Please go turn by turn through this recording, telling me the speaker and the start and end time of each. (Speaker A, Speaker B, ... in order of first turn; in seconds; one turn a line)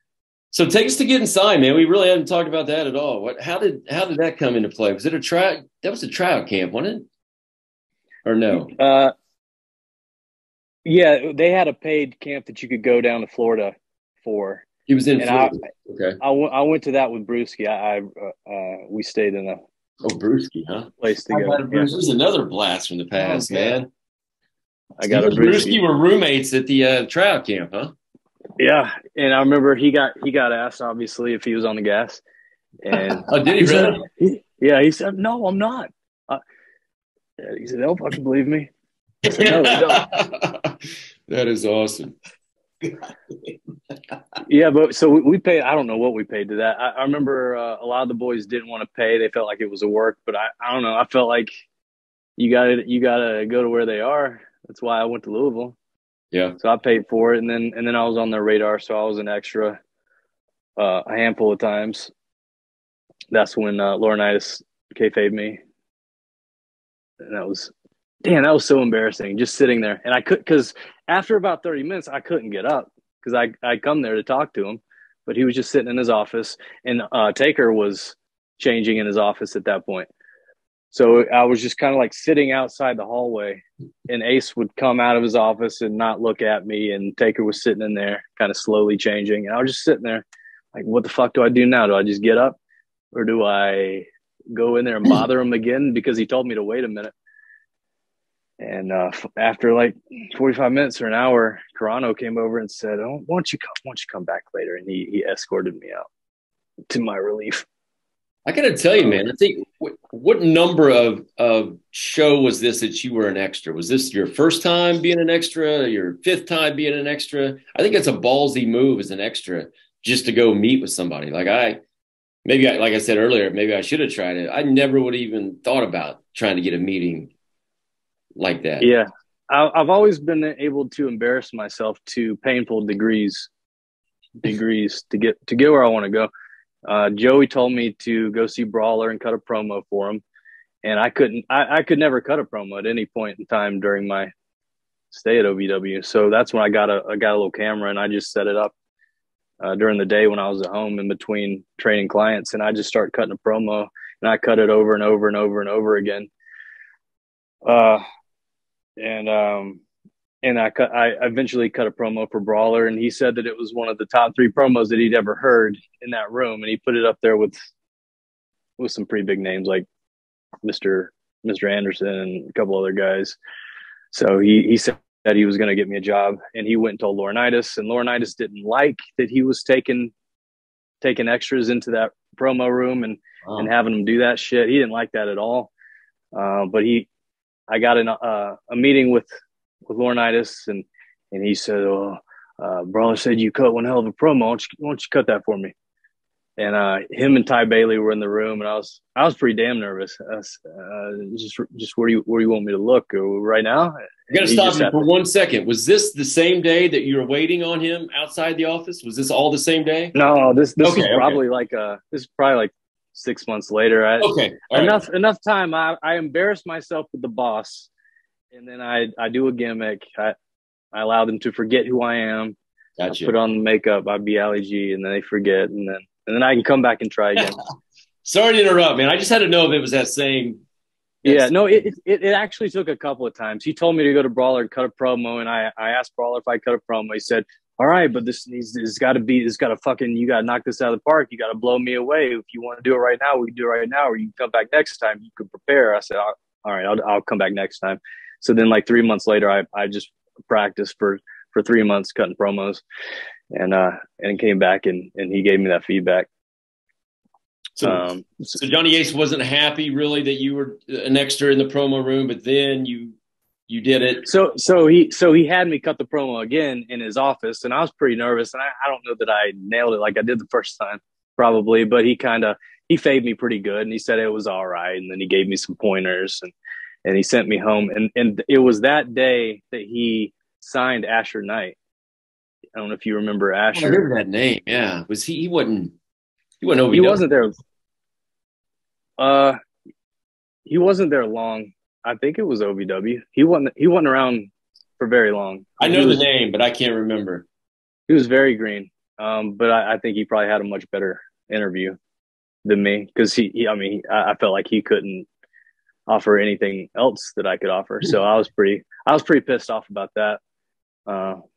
Speaker A: 0.5-7.1
Speaker A: 8.2-8.7
Speaker B: 8.5-9.1
Speaker B: 10.9-14.7
Speaker A: 14.9-16.2
Speaker B: 15.2-15.6
Speaker B: 16.2-19.6
Speaker A: 20.0-23.9
Speaker B: 21.0-21.9
Speaker B: 23.2-23.8
Speaker B: 25.0-25.8
Speaker A: 25.0-27.9
Speaker B: 28.6-32.2
Speaker B: 32.8-36.4
Speaker A: 33.3-34.0
Speaker B: 37.4-38.7
Speaker A: 39.2-42.2
Speaker B: 39.3-40.1
Speaker B: 44.5-51.5
Speaker B: 52.4-55.8
Speaker B: 56.6-59.8
Speaker B: 60.8-62.1
Speaker B: 63.3-65.6
Speaker B: 67.2-67.7
Speaker B: 68.2-80.1
Speaker B: 80.9-92.6
Speaker B: 93.1-97.1
Speaker B: 98.6-106.0
Speaker B: 106.9-107.7
Speaker A: 108.5-121.8
Speaker A: 122.5-127.3
Speaker A: 128.4-128.9
Speaker B: 128.8-133.5
Speaker B: 134.4-136.3
Speaker B: 136.8-140.2
Speaker B: 140.8-144.3
Speaker B: 145.1-148.7
Speaker B: 149.6-156.3
Speaker B: 157.7-158.0
Speaker B: 159.0-159.8
Speaker B: 160.4-167.6
Speaker B: 168.8-169.8
Speaker B: 170.6-173.4
Speaker B: 174.1-180.1
Speaker B: 181.0-185.7
Speaker B: 186.3-187.1
Speaker B: 187.7-189.3
Speaker B: 189.9-195.7
Speaker B: 196.6-205.1
Speaker A: 204.3-210.2
Speaker B: 210.2-217.9
Speaker A: 210.8-211.4
Speaker A: 214.2-215.0
Speaker B: 218.5-220.3
Speaker B: 220.9-222.6
Speaker A: 223.0-223.3
Speaker B: 223.2-227.6
Speaker A: 228.2-230.6
Speaker A: 231.2-231.5
Speaker B: 231.2-252.8
Speaker B: 253.5-256.3
Speaker A: 257.8-263.2
Speaker B: 257.8-258.6
Speaker A: 263.7-264.2
Speaker B: 264.2-276.5
Speaker B: 277.1-281.8
Speaker B: 282.8-284.0
Speaker A: 283.7-285.9
Speaker A: 286.6-287.2
Speaker B: 286.9-287.6
Speaker B: 289.2-289.6
Speaker B: 290.7-296.2
Speaker A: 295.8-297.5
Speaker B: 298.1-302.0
Speaker B: 302.6-305.3
Speaker B: 306.1-310.4
Speaker B: 311.1-311.4